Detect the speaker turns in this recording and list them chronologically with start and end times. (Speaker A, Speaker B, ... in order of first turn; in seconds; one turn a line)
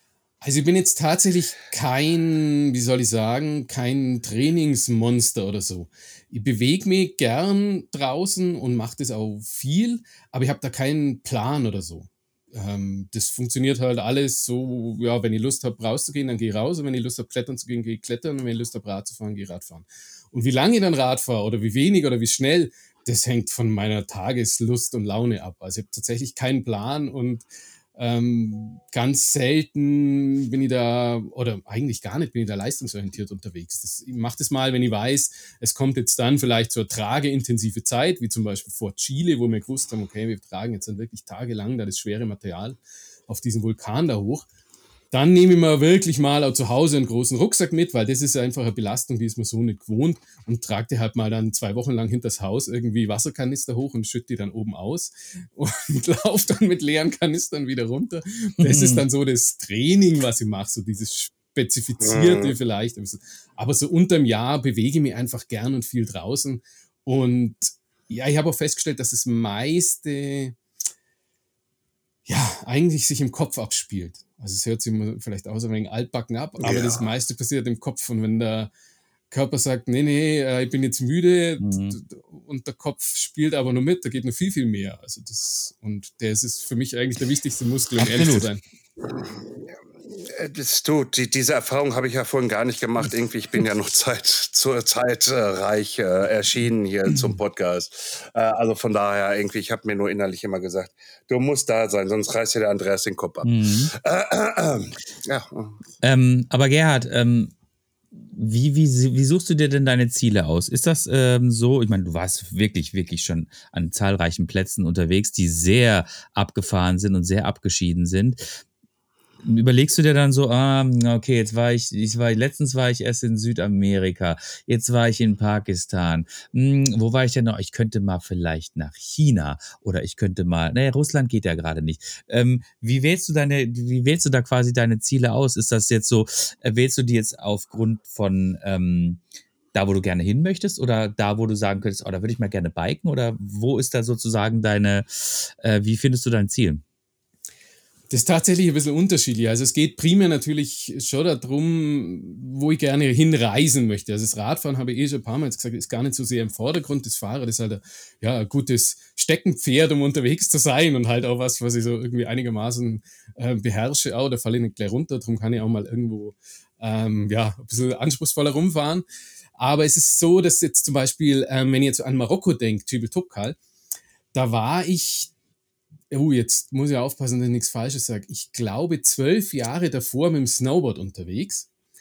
Speaker A: 0.4-27.4
Speaker A: 28.0-44.5
Speaker A: 45.1-70.6
Speaker B: 58.6-59.0
Speaker C: 62.0-62.5
Speaker A: 72.3-78.7
Speaker C: 76.6-77.1
Speaker A: 79.3-88.6
Speaker B: 81.6-82.0
Speaker B: 88.0-88.5
Speaker C: 89.0-105.8
Speaker B: 103.4-103.9
Speaker B: 106.0-107.5
Speaker B: 108.2-118.4
Speaker B: 119.4-139.2
Speaker B: 139.7-146.8
Speaker A: 148.1-169.1
Speaker A: 169.6-173.6
Speaker A: 174.3-175.3
Speaker A: 176.1-181.7